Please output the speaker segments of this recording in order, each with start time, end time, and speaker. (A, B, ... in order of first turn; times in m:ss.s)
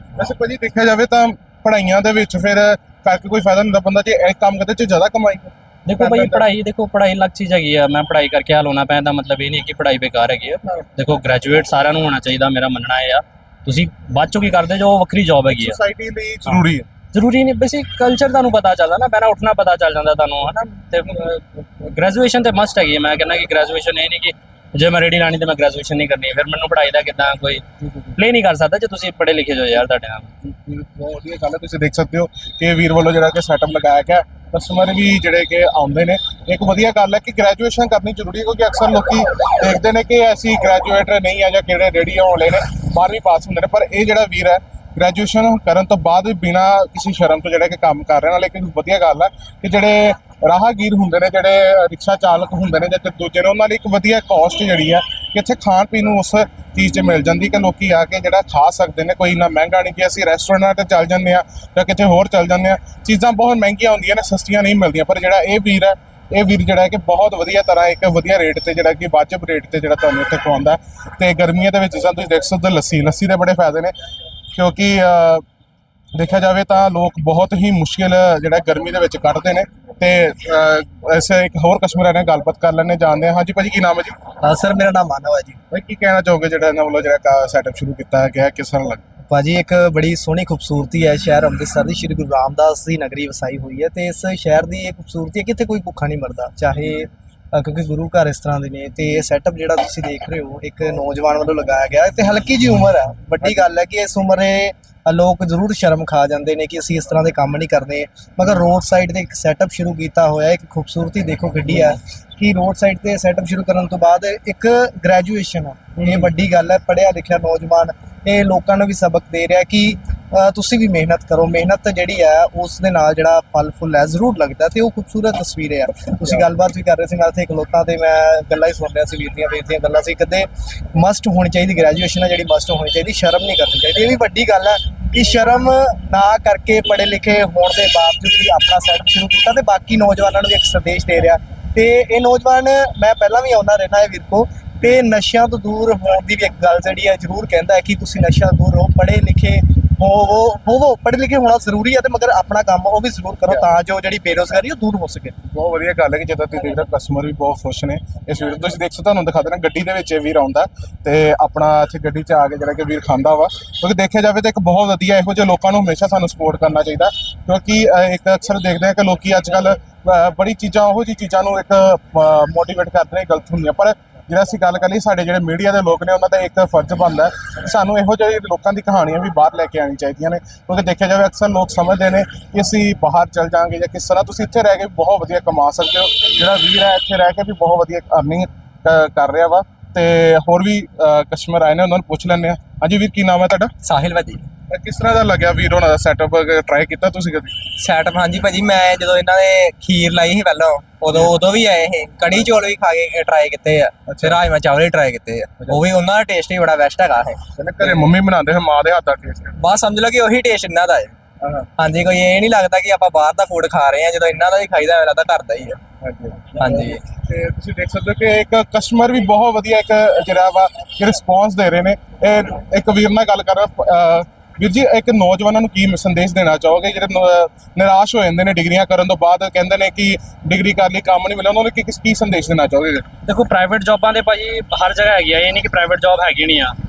0:00.2-0:06.5 A
0:05.9-0:15.8 B
0:15.5-0:16.9 A
0:17.1-0:30.3 B
0:30.4-1:13.9 A
1:14.6-1:15.4 A
1:16.1-1:24.1 A
1:24.4-1:25.6 C
1:25.7-1:29.0 A
1:29.3-2:35.4 C
1:56.0-1:56.3 A
2:35.5-3:13.7 A
3:13.8-3:14.5 D
3:14.7-3:17.6 A
3:17.8-3:27.4 D
3:24.1-3:24.4 A
3:27.6-3:29.6 A
3:29.6-3:31.1 D
3:31.4-3:31.7 A
3:31.8-3:35.8 D
3:36.0-3:53.0 A
3:36.6-3:37.0 D
3:53.2-3:56.7 B